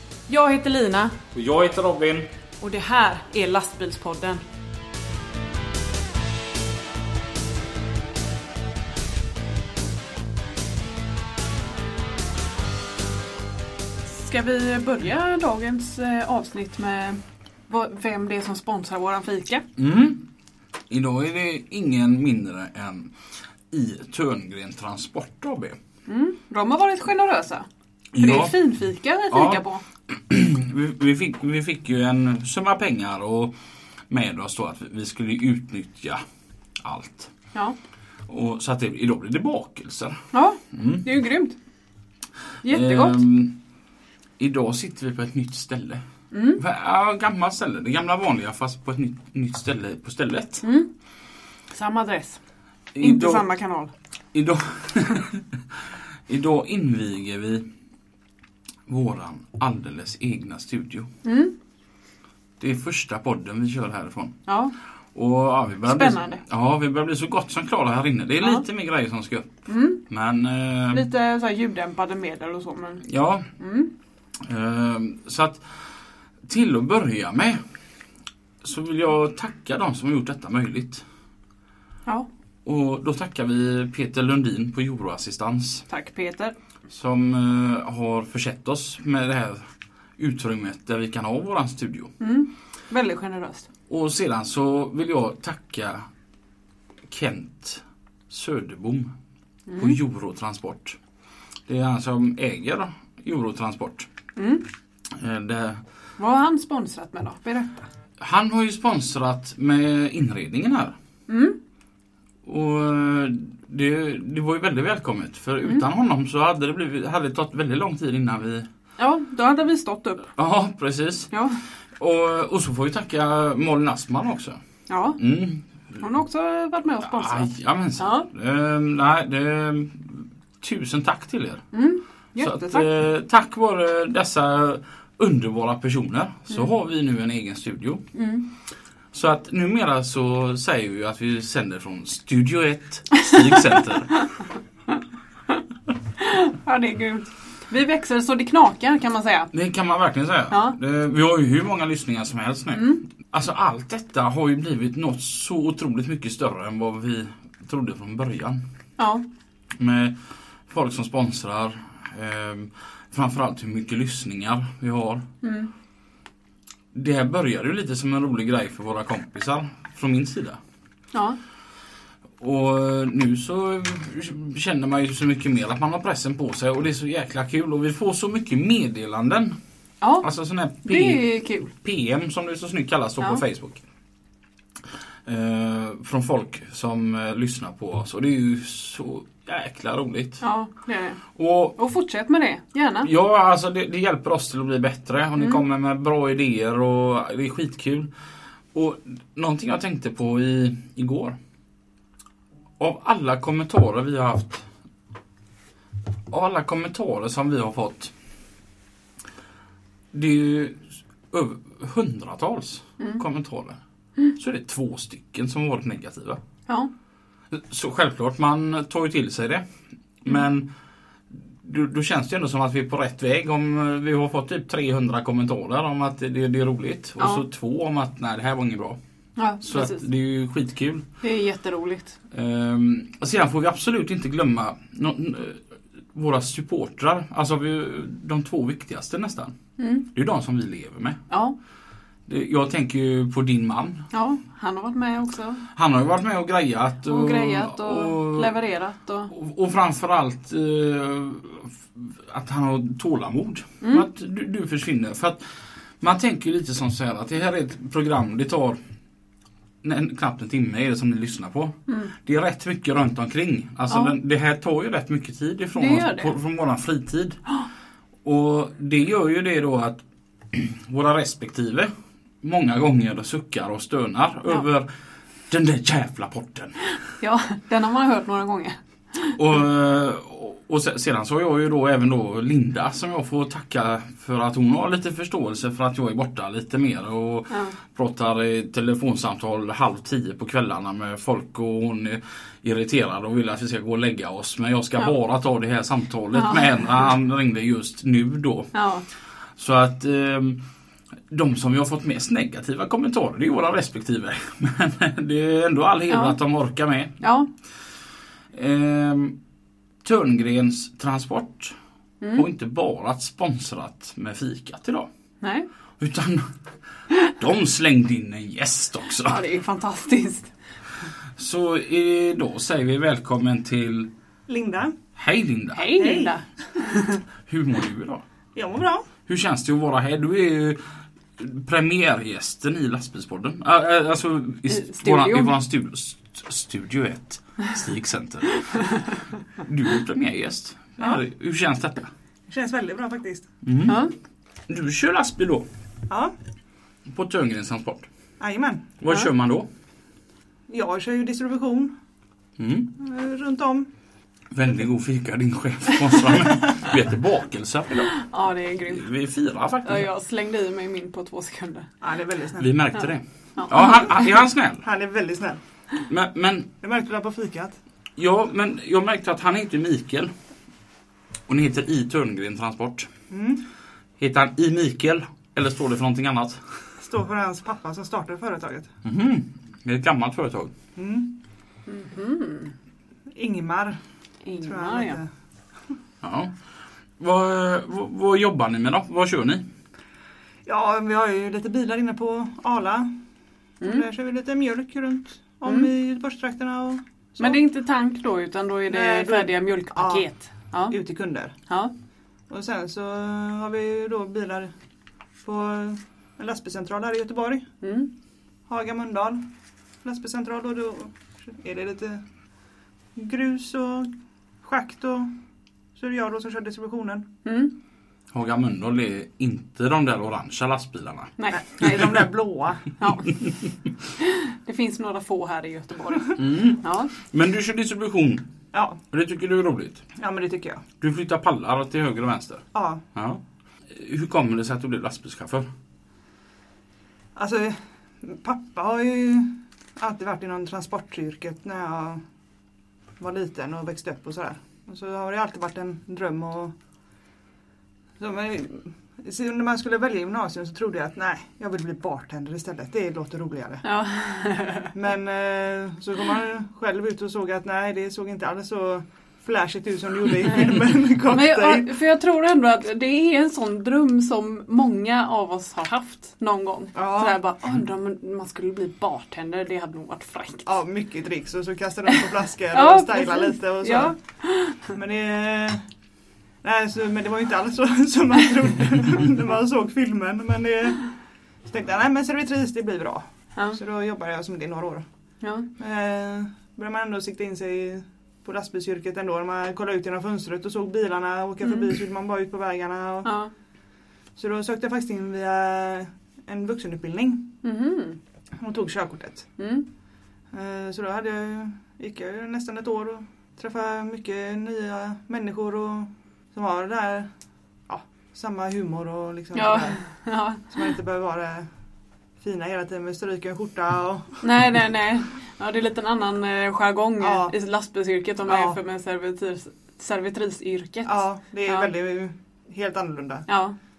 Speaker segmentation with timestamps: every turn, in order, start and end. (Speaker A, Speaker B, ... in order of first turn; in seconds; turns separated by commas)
Speaker A: 0.3-1.2, Speaker B: 1.3-2.3, Speaker A: 2.6-4.4, Speaker A: 14.1-19.6, Speaker B: 19.8-20.3, Speaker B: 20.9-23.1, Speaker B: 23.7-25.8, Speaker A: 26.1-27.7, Speaker B: 28.1-28.6, Speaker A: 28.2-29.8, Speaker B: 29.3-33.5, Speaker B: 34.1-36.2, Speaker B: 36.8-37.3, Speaker B: 38.3-41.0, Speaker A: 40.3-41.6, Speaker A: 42.6-43.2, Speaker B: 42.7-43.6, Speaker B: 44.4-46.0, Speaker A: 46.3-46.6, Speaker B: 46.6-50.6, Speaker A: 50.6-50.9, Speaker A: 51.7-52.4, Speaker B: 52.9-53.5, Speaker A: 53.0-53.9, Speaker B: 54.3-55.5, Speaker B: 56.3-57.7, Speaker B: 58.9-61.1, Speaker A: 61.2-61.5, Speaker B: 62.6-64.4, Speaker A: 64.5-64.7, Speaker B: 65.2-71.0, Speaker A: 65.9-66.4, Speaker A: 69.7-70.0, Speaker A: 70.9-73.1, Speaker B: 73.0-73.5, Speaker A: 73.6-73.9, Speaker B: 74.4-75.7, Speaker B: 76.5-77.6, Speaker B: 78.6-81.0, Speaker B: 82.7-85.9, Speaker A: 85.9-86.5, Speaker B: 86.9-92.1, Speaker A: 92.2-93.7, Speaker B: 93.9-96.1, Speaker B: 97.1-99.1, Speaker A: 99.7-100.0, Speaker B: 99.8-101.0, Speaker B: 101.7-104.1, Speaker A: 104.4-104.7, Speaker B: 105.1-105.8, Speaker A: 106.2-107.9, Speaker B: 108.2-111.0, Speaker A: 111.3-111.6, Speaker B: 112.5-118.7, Speaker A: 119.0-120.3, Speaker B: 120.4-121.3, Speaker A: 121.3-121.6, Speaker B: 122.0-124.6, Speaker A: 124.9-125.2, Speaker B: 125.2-126.0, Speaker A: 126.0-128.3, Speaker B: 127.0-131.6, Speaker A: 131.7-132.9, Speaker B: 132.4-138.0, Speaker A: 138.2-138.5, Speaker B: 139.1-144.2, Speaker A: 146.2-149.5, Speaker B: 149.5-158.6, Speaker A: 150.5-150.8, Speaker A: 152.7-153.0, Speaker A: 159.0-159.2, Speaker B: 159.8-165.3, Speaker A: 165.4-165.7, Speaker B: 166.9-170.6, Speaker B: 172.4-179.6, Speaker A: 180.0-180.3, Speaker B: 180.2-183.8, Speaker A: 180.8-181.7, Speaker B: 185.3-190.4, Speaker A: 190.4-191.2, Speaker B: 191.3-191.8, Speaker A: 191.8-193.1, Speaker B: 193.0-198.1, Speaker B: 198.7-201.4, Speaker B: 202.8-204.7, Speaker B: 206.3-208.1, Speaker B: 210.1-213.8, Speaker B: 214.4-216.4, Speaker B: 217.5-219.7, Speaker B: 220.2-220.7, Speaker B: 221.3-229.0, Speaker A: 229.4-230.0, Speaker B: 229.6-231.1, Speaker A: 231.2-232.2, Speaker B: 232.3-235.6, Speaker B: 236.1-239.6, Speaker A: 239.8-240.1, Speaker B: 240.1-241.2, Speaker A: 241.3-241.6, Speaker B: 242.3-244.1, Speaker A: 244.1-245.7, Speaker B: 245.8-248.6, Speaker A: 247.1-249.3, Speaker B: 249.3-255.4, Speaker B: 256.0-258.8, Speaker B: 259.8-267.4, Speaker A: 265.8-266.3, Speaker B: 268.2-271.9, Speaker B: 272.4-274.9, Speaker B: 275.5-276.8, Speaker A: 277.2-279.4, Speaker B: 279.4-298.7, Speaker A: 287.5-287.8, Speaker A: 296.4-296.6, Speaker A: 298.7-299.1, Speaker B: 299.6-300.6, Speaker B: 301.3-307.2, Speaker A: 306.1-306.4, Speaker A: 307.2-307.5, Speaker B: 308.5-309.4, Speaker B: 310.0-311.8, Speaker A: 312.2-312.5, Speaker B: 312.3-315.1, Speaker A: 315.4-315.7, Speaker B: 316.0-316.5, Speaker B: 317.3-319.4, Speaker A: 319.2-320.5, Speaker B: 321.4-324.1, Speaker C: 324.5-325.0, Speaker B: 325.2-325.9, Speaker A: 325.7-327.2, Speaker C: 326.0-326.3, Speaker B: 327.5-328.2, Speaker C: 328.6-329.1, Speaker B: 329.3-330.8, Speaker B: 331.4-338.6, Speaker A: 334.7-335.5, Speaker A: 338.6-339.0, Speaker B: 339.6-342.1, Speaker C: 342.5-343.5, Speaker B: 343.6-344.0, Speaker A: 343.9-344.1, Speaker B: 344.7-345.7, Speaker B: 347.1-348.1, Speaker C: 348.4-348.9, Speaker B: 349.0-349.7, Speaker C: 350.7-351.9, Speaker B: 352.6-352.9, Speaker C: 353.0-353.9, Speaker B: 354.5-358.1, Speaker A: 358.1-359.1, Speaker B: 358.9-360.1, Speaker A: 359.8-361.9, Speaker C: 362.0-362.7, Speaker B: 362.6-364.8, Speaker A: 363.6-364.2, Speaker C: 364.8-365.6, Speaker B: 366.1-366.7, Speaker C: 366.8-367.8, Speaker B: 368.2-370.3, Speaker B: 371.5-373.1, Speaker C: 373.3-373.6, Speaker B: 374.2-376.6, Speaker C: 377.0-378.9, Speaker B: 379.0-380.7, Speaker C: 381.0-381.3, Speaker A: 381.9-382.7, Speaker C: 383.4-384.0, Speaker A: 384.5-385.2, Speaker C: 384.6-385.3, Speaker B: 386.2-386.6, Speaker B: 387.2-389.6, Speaker C: 390.7-393.1, Speaker C: 393.8-397.6, Speaker A: 397.4-401.0, Speaker C: 398.9-400.3, Speaker C: 400.9-401.5, Speaker A: 401.7-401.9, Speaker C: 402.5-404.7, Speaker C: 405.4-407.7, Speaker A: 407.8-408.1, Speaker C: 408.7-409.4, Speaker C: 410.0-412.2, Speaker C: 413.2-414.1, Speaker C: 414.6-415.3, Speaker C: 416.0-417.3, Speaker A: 417.4-417.7, Speaker B: 418.3-422.0, Speaker A: 421.4-422.1, Speaker C: 421.5-422.9, Speaker A: 423.0-423.4, Speaker A: 424.2-427.1, Speaker B: 426.4-428.4, Speaker C: 428.7-429.0, Speaker B: 429.1-430.0, Speaker C: 430.2-430.8, Speaker B: 431.0-435.7, Speaker C: 432.7-433.0, Speaker C: 437.4-442.2, Speaker C: 443.2-446.7, Speaker C: 448.2-453.8, Speaker A: 453.8-454.9, Speaker C: 454.9-461.9, Speaker A: 461.2-470.7, Speaker C: 466.9-467.4, Speaker C: 470.7-474.2, Speaker A: 472.7-474.9, Speaker C: 474.8-475.8, Speaker C: 476.6-481.1, Speaker C: 481.7-485.1, Speaker A: 485.4-485.7, Speaker C: 485.8-493.3, Speaker A: 493.2-493.5, Speaker C: 494.4-497.5, Speaker A: 497.6-498.2, Speaker C: 498.6-499.5, Speaker A: 499.6-499.9, Speaker C: 500.5-507.3, Speaker C: 507.9-510.0, Speaker A: 509.6-510.7, Speaker C: 510.7-511.7, Speaker C: 512.4-514.5, Speaker A: 514.4-521.9, Speaker C: 517.2-517.5, Speaker C: 518.5-518.8, Speaker C: 521.1-523.5, Speaker A: 523.5-523.8